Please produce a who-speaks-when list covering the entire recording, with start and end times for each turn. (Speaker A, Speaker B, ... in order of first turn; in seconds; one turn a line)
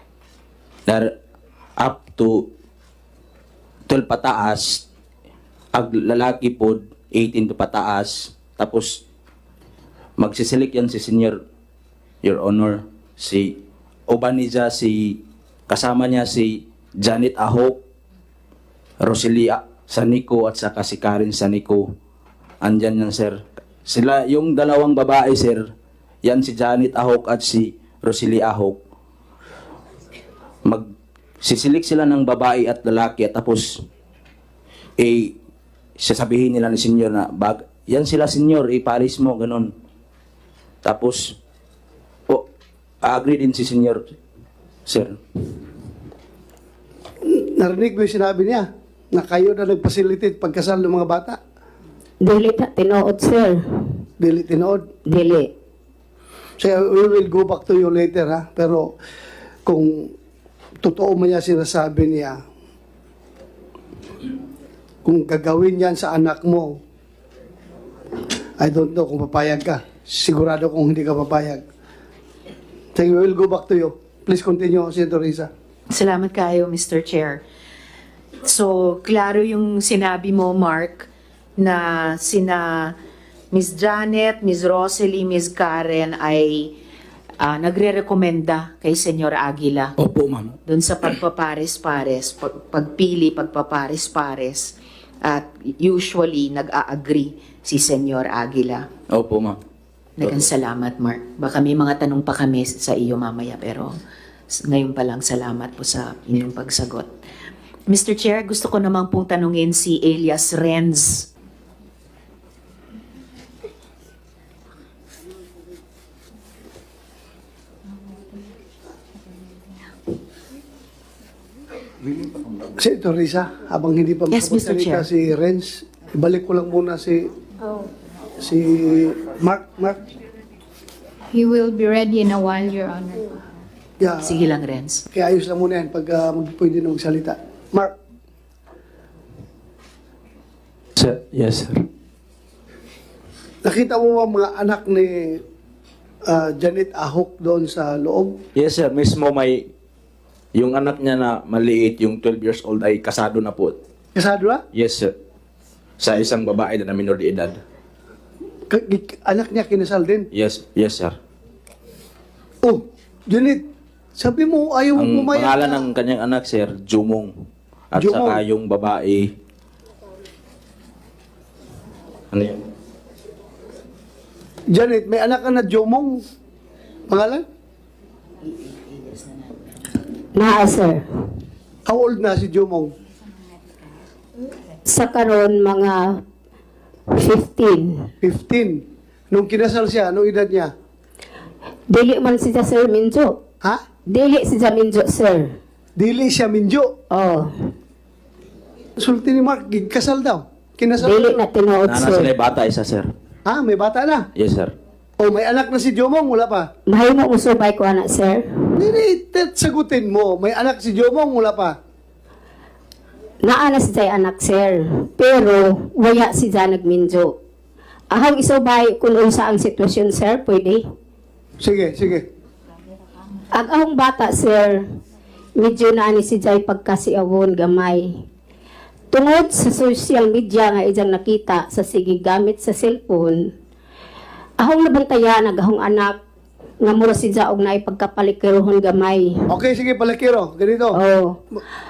Speaker A: 1.8-2.4
Speaker A: 3.9-4.8
Speaker A: 5.7-9.0
Speaker A: 10.2-11.4
Speaker A: 12.2-13.5
Speaker A: 14.1-17.8
Speaker A: 19.0-21.9
Speaker A: 22.6-25.6
Speaker A: 26.2-28.8
Speaker A: 31.4-33.8
Speaker A: 35.0-35.3
Speaker A: 36.0-39.7
Speaker A: 40.8-41.4
Speaker A: 43.0-44.0
Speaker A: 44.9-45.2
Speaker B: 47.2-51.4
Speaker C: 52.2-54.1
Speaker B: 54.2-54.8
Speaker C: 55.1-55.5
Speaker B: 56.6-58.9
Speaker B: 59.7-60.1
Speaker B: 60.8-62.4
Speaker B: 65.0-66.8
Speaker B: 68.6-71.6
Speaker B: 73.0-75.5
Speaker D: 75.9-77.4
Speaker D: 78.5-83.0
Speaker D: 83.5-86.8
Speaker D: 87.4-90.0
Speaker A: 90.0-90.6
Speaker D: 90.7-98.9
Speaker A: 99.1-99.6
Speaker D: 100.2-103.9
Speaker D: 104.5-107.1
Speaker D: 107.9-111.3
Speaker B: 122.8-127.3
Speaker D: 124.3-125.1
Speaker B: 128.4-130.0
Speaker E: 131.3-133.3
Speaker B: 134.0-134.4
Speaker D: 134.2-135.0
Speaker B: 135.1-137.9
Speaker A: 141.0-141.8
Speaker B: 143.6-145.4
Speaker B: 146.3-148.4
Speaker A: 148.6-149.7
Speaker A: 150.6-153.8
Speaker B: 154.2-154.6
Speaker A: 154.7-155.1
Speaker A: 156.0-157.6
Speaker B: 158.7-160.3
Speaker A: 160.3-161.2
Speaker B: 162.6-163.6
Speaker B: 164.2-165.8
Speaker A: 164.9-167.3
Speaker A: 167.9-169.3
Speaker B: 168.0-168.4
Speaker A: 172.3-172.6
Speaker B: 174.7-176.2
Speaker B: 177.1-177.5
Speaker C: 180.3-181.1
Speaker B: 181.9-182.9
Speaker C: 184.9-186.2
Speaker C: 187.1-188.1
Speaker B: 188.2-190.7
Speaker C: 191.9-193.4
Speaker C: 194.1-195.6
Speaker B: 196.0-196.9
Speaker C: 197.1-197.7
Speaker B: 199.0-201.4
Speaker C: 201.0-202.3
Speaker A: 201.9-203.1
Speaker B: 203.5-204.3
Speaker A: 204.4-204.7
Speaker B: 205.2-206.7
Speaker C: 206.9-208.9
Speaker B: 208.8-211.8
Speaker C: 213.4-217.4
Speaker C: 218.1-220.9
Speaker B: 221.6-222.3
Speaker C: 223.5-224.9
Speaker C: 225.6-228.2
Speaker C: 229.1-233.5
Speaker C: 234.6-236.2
Speaker C: 236.8-239.5
Speaker B: 239.5-241.0
Speaker C: 240.9-241.4